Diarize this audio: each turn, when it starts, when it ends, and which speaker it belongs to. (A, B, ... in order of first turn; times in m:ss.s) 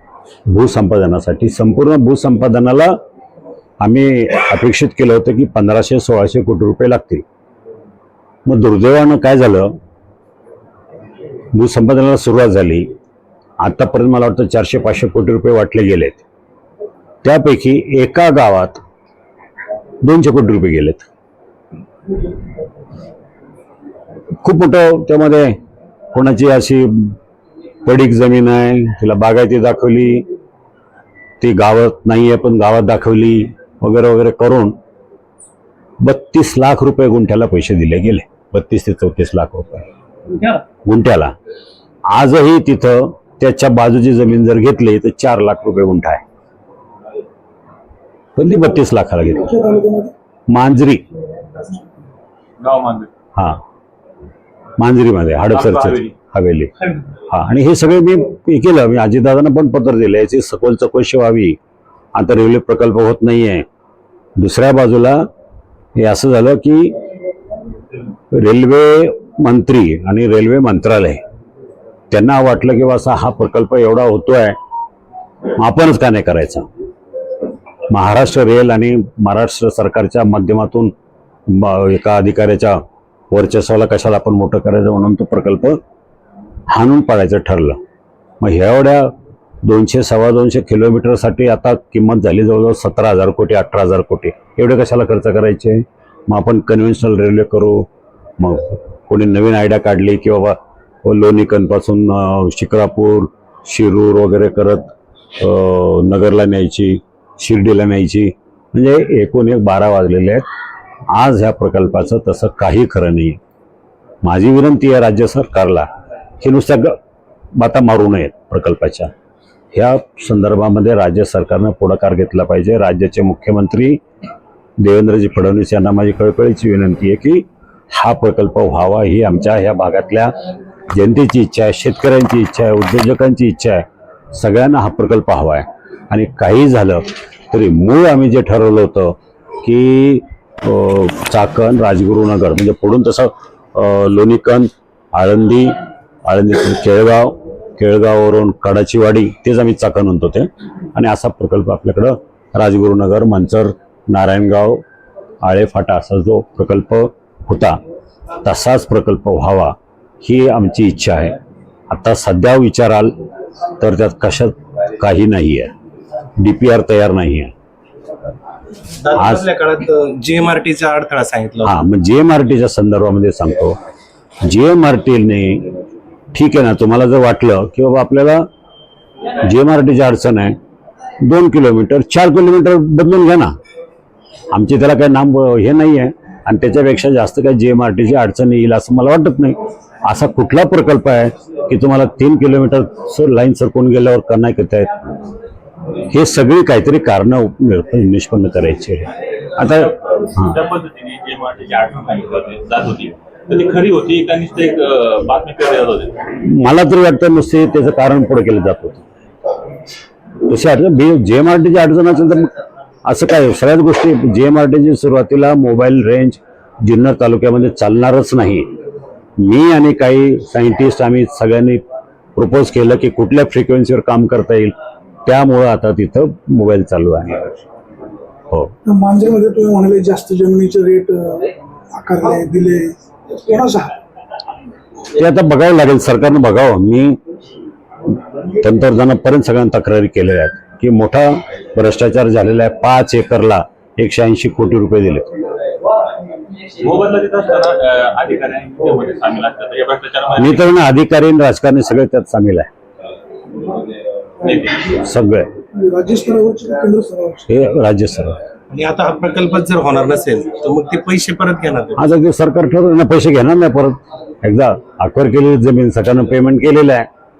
0:00.4-0:02.9 A
0:03.8-0:07.2 A
0:08.4-0:09.7 A
0:11.5-0:12.9 A
0:13.6-0:16.2 A
0:17.2-0:18.8 A
0:20.0-0:21.0 A
0:24.4-0:25.6 A
0:26.1-0:27.2 A
0:27.8-0:30.3 A
0:31.4-0:34.8 A
0:36.0-0:39.8 A
0:40.8-0:41.3 A
0:42.1-0:46.2 A
0:48.4-0:49.7 A
0:49.6-0:50.1 B
0:50.5-0:51.0 A
0:52.6-0:53.1 C
0:53.3-0:53.6 A
0:54.8-0:56.7 A
0:55.5-0:56.1 C
0:57.3-1:01.6 A
1:02.1-1:03.6 A
1:04.4-1:05.3 A
1:06.0-1:07.0 A
1:08.3-1:11.2 A
1:12.1-1:14.6 A
1:15.5-1:16.7 A
1:17.9-1:20.9 A
1:21.5-1:22.8 A
1:23.3-1:25.8 A
1:26.7-1:27.8 A
1:28.4-1:29.1 A
1:29.6-1:37.9 A
1:38.4-1:50.4 A
1:51.1-1:53.4 A
1:54.2-1:55.9 A
1:56.4-1:57.0 A
1:57.6-1:59.1 A
1:59.7-2:04.0 A
2:04.8-2:10.3 A
2:10.9-2:34.8 A
2:35.4-2:37.8 A
2:38.4-2:41.4 A
2:41.9-2:43.1 A
2:43.8-2:45.7 A
2:46.4-2:47.5 A
2:49.0-2:51.7 D
2:49.2-2:49.4 A
2:51.6-2:53.8 A
2:54.4-2:55.7 A
2:56.3-2:58.4 A
2:59.4-3:00.6 A
3:01.2-3:03.5 A
3:04.5-3:15.0 A
3:16.1-3:20.6 A
3:19.6-3:26.1 C
3:26.4-3:29.0 A
3:30.5-3:32.5 A
3:33.0-3:38.7 A
3:39.4-3:41.8 A
3:42.4-3:44.7 A
3:45.2-3:47.5 A
3:48.8-3:53.9 B
3:55.2-3:57.2 A
3:58.6-4:05.4 A
4:06.8-4:10.7 C
4:10.3-4:12.7 A
4:14.4-4:14.9 C
4:15.0-4:15.5 A
4:15.7-4:17.5 B
4:17.5-4:18.4 A
4:18.7-4:22.0 D
4:22.0-4:27.1 A